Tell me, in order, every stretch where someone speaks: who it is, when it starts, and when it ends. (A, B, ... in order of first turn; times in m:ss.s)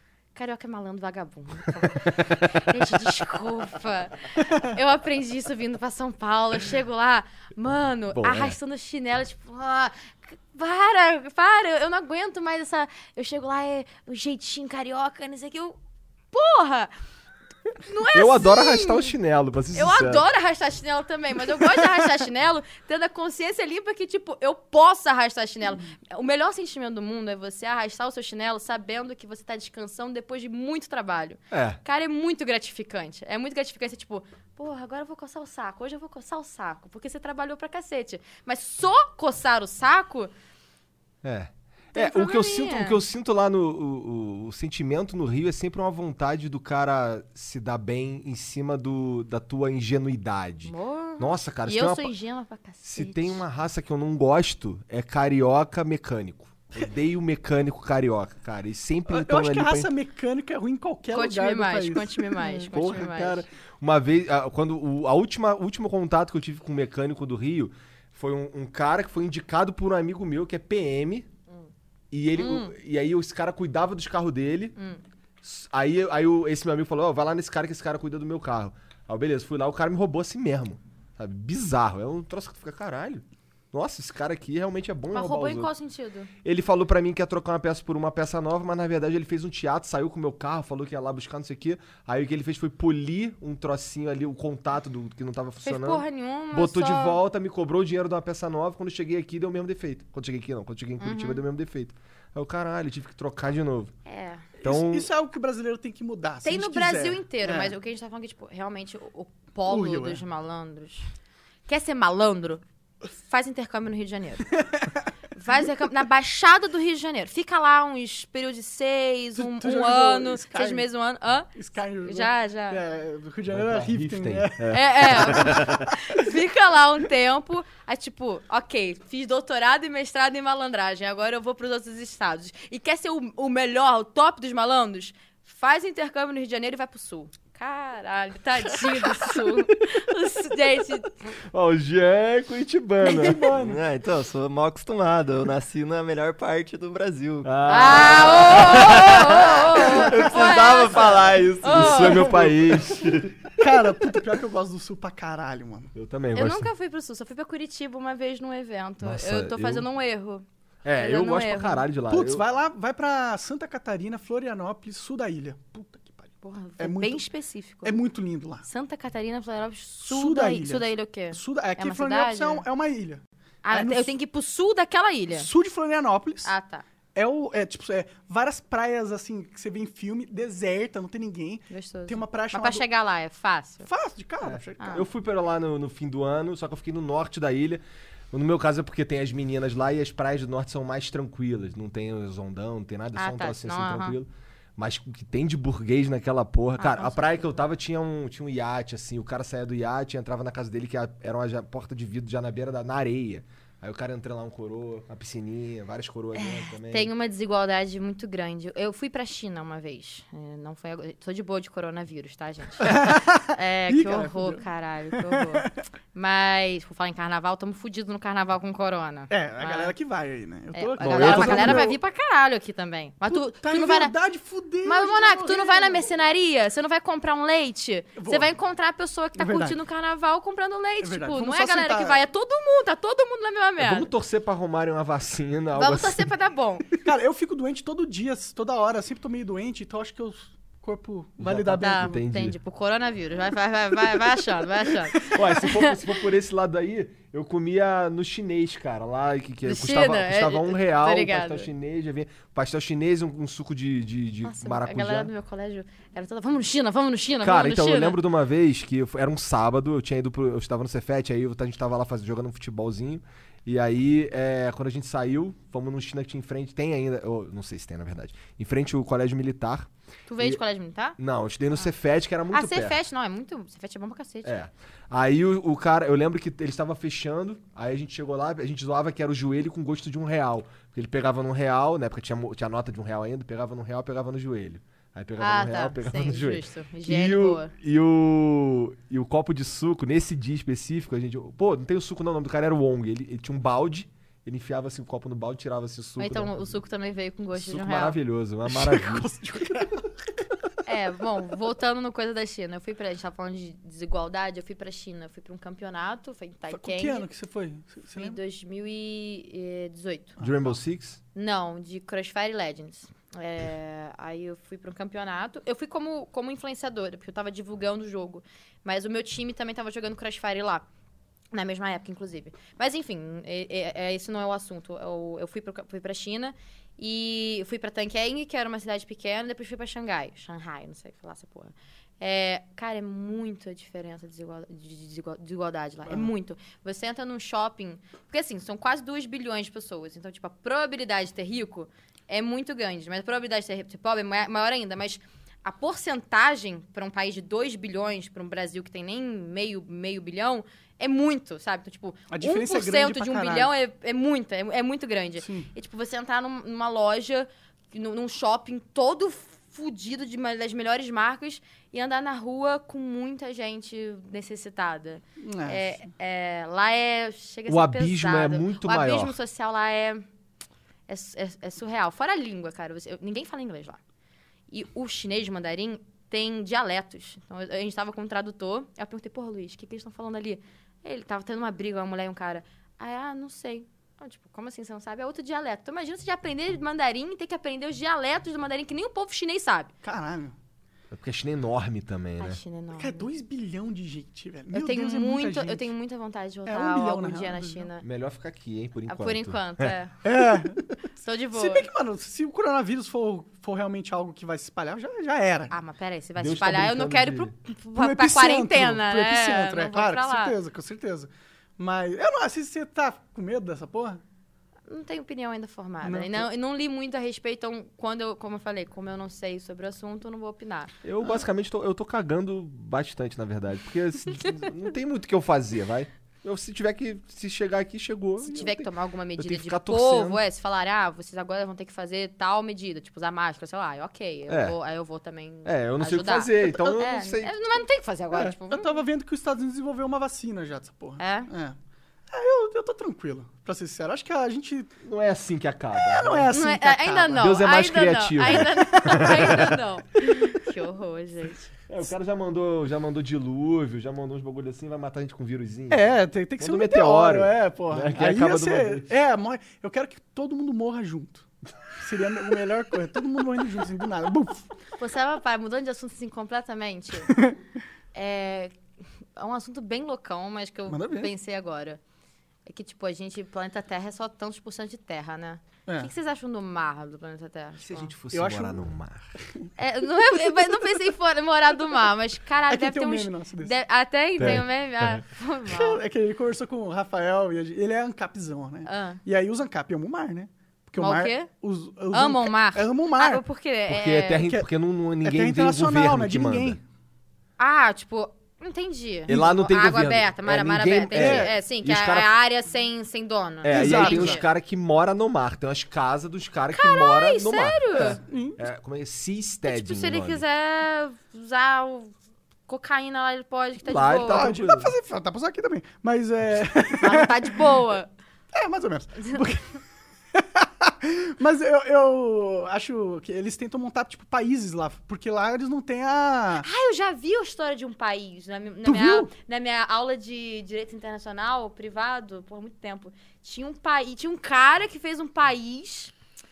0:00.3-0:15.8 A
0:02.2-0:02.7 B
0:08.1-0:08.6 B
0:16.3-0:16.9 A
0:17.8-0:19.1 A
0:18.1-0:20.2 B
0:19.7-0:40.3 A
0:31.5-0:31.8 B
0:41.2-0:52.1 B
0:41.9-0:43.0 A
0:50.6-0:53.4 A
0:52.8-0:59.9 B
0:59.1-1:02.7 C
1:01.1-1:03.4 A
1:02.7-1:11.3 B
1:12.1-1:14.8 B
1:12.4-1:12.7 A
1:14.8-1:15.0 A
1:15.4-1:25.7 B
1:25.1-1:26.3 A
1:26.4-1:43.9 B
1:35.6-1:37.2 A
1:41.0-1:41.4 A
1:44.0-1:44.5 A
1:44.6-1:45.1 B
1:44.6-1:47.7 C
1:46.4-1:51.1 A
1:49.7-1:50.2 C
1:51.7-1:54.5 A
1:55.4-2:02.8 A
1:59.4-2:00.8 C
2:01.5-2:04.7 C
2:03.5-2:05.9 B
2:04.7-2:21.2 A
2:19.4-2:19.9 B
2:21.5-2:23.5 B
2:23.1-2:23.8 C
2:23.5-2:32.4 D
2:27.4-2:29.6 B
2:27.7-2:32.3 A
2:29.9-2:30.5 C
2:31.6-2:33.7 B
2:32.3-2:32.8 C
2:33.6-2:35.9 C
2:35.9-2:36.7 B
2:36.3-2:40.4 A
2:39.0-2:39.8 B
2:40.8-2:42.4 B
2:41.0-2:41.8 A
2:42.1-2:46.3 C
2:46.4-2:47.9 A
2:46.8-2:47.2 C
2:47.8-2:48.6 C
2:48.6-2:52.6 A
2:50.0-2:54.1 C
2:53.6-2:55.5 A
2:55.3-2:56.5 C
2:56.4-2:56.8 A
2:57.1-3:02.8 C
3:01.7-3:03.9 A
3:03.8-3:05.0 C
3:04.4-3:07.8 B
3:04.8-3:05.0 A
3:08.3-3:27.1 B
3:13.1-3:14.2 A
3:16.8-3:17.6 A
3:26.4-3:39.9 A
3:32.9-3:35.7 C
3:39.3-3:41.9 C
3:40.7-3:44.1 A
3:41.0-3:41.9 B
3:43.3-3:46.1 C
3:44.8-3:54.1 A
3:48.2-3:48.5 C
3:49.4-3:49.8 C
3:51.0-3:52.2 C
3:53.8-3:56.2 B
3:55.7-3:56.9 A
3:57.0-4:02.2 C
4:01.4-4:02.6 B
4:01.8-4:06.0 A
4:05.3-4:15.3 B
4:09.6-4:11.7 A
4:14.4-4:18.2 A
4:17.4-4:30.6 B
4:30.3-4:31.2 A
4:31.2-4:33.0 B
4:32.5-4:34.5 A
4:34.4-4:56.7 B
4:45.4-4:47.7 A
4:56.2-4:58.2 A
4:57.5-4:59.3 B
4:58.7-5:00.1 C
5:00.8-5:07.3 A
5:06.7-5:08.4 C
5:08.1-5:10.4 A
5:10.4-5:10.7 C
5:10.4-5:11.2 B
5:11.3-5:20.8 A
5:21.5-6:10.2 A
5:52.3-5:53.7 C
5:55.4-5:55.7 C
6:05.4-6:06.0 C
6:07.7-6:09.4 B
6:11.1-6:14.0 A
6:14.7-6:29.9 A
6:30.0-6:30.5 C
6:31.1-6:32.6 B
6:32.4-6:33.3 A
6:33.0-6:35.9 C
6:34.7-6:38.0 A
6:36.6-6:37.9 C
6:38.0-6:39.9 B
6:39.1-6:40.2 A
6:40.2-6:41.0 C
6:41.2-6:41.8 A
6:41.5-6:45.7 C
6:45.7-6:50.6 A
6:46.4-6:47.5 B
6:48.0-6:54.2 C
6:54.9-7:00.9 A
6:56.0-6:56.4 C
7:01.0-7:10.4 B
7:08.4-7:19.0 A
7:14.5-7:14.8 B
7:15.6-7:17.5 B
7:18.3-7:21.8 C
7:21.2-7:21.5 A
7:22.3-7:25.0 C
7:25.0-7:26.5 B
7:25.9-7:27.4 C
7:26.5-7:31.7 A
7:27.4-7:29.8 B
7:28.6-7:29.6 C
7:31.9-7:36.0 B
7:35.9-7:44.7 C
7:36.6-7:39.1 B
7:45.0-7:47.4 A
7:47.3-7:47.6 C
7:48.1-7:48.8 A
7:49.4-7:52.0 A
7:50.9-7:51.3 C
7:52.6-7:58.1 A
7:57.8-7:59.3 B
7:58.3-7:58.8 C
7:59.4-7:59.7 C
7:59.8-8:06.0 A
8:02.7-8:03.7 C
8:04.4-8:05.2 B
8:05.7-8:13.4 C
8:08.8-8:09.2 A
8:11.0-8:11.5 A
8:12.1-8:14.4 A
8:13.9-8:16.8 B
8:14.4-8:14.7 C
8:15.2-8:16.8 C
8:17.6-8:24.4 A
8:19.3-8:22.3 B
8:21.1-8:21.5 C
8:23.6-8:30.4 B
8:23.6-8:24.4 C
8:26.7-8:28.2 A
8:27.9-8:28.6 C
8:29.6-8:32.1 A
8:32.7-8:34.5 A
8:33.8-8:34.9 B
8:34.3-8:37.7 C
8:37.0-8:38.1 A
8:38.5-8:39.7 C
8:40.3-8:46.7 C
8:46.6-8:56.1 A
8:48.8-8:49.3 C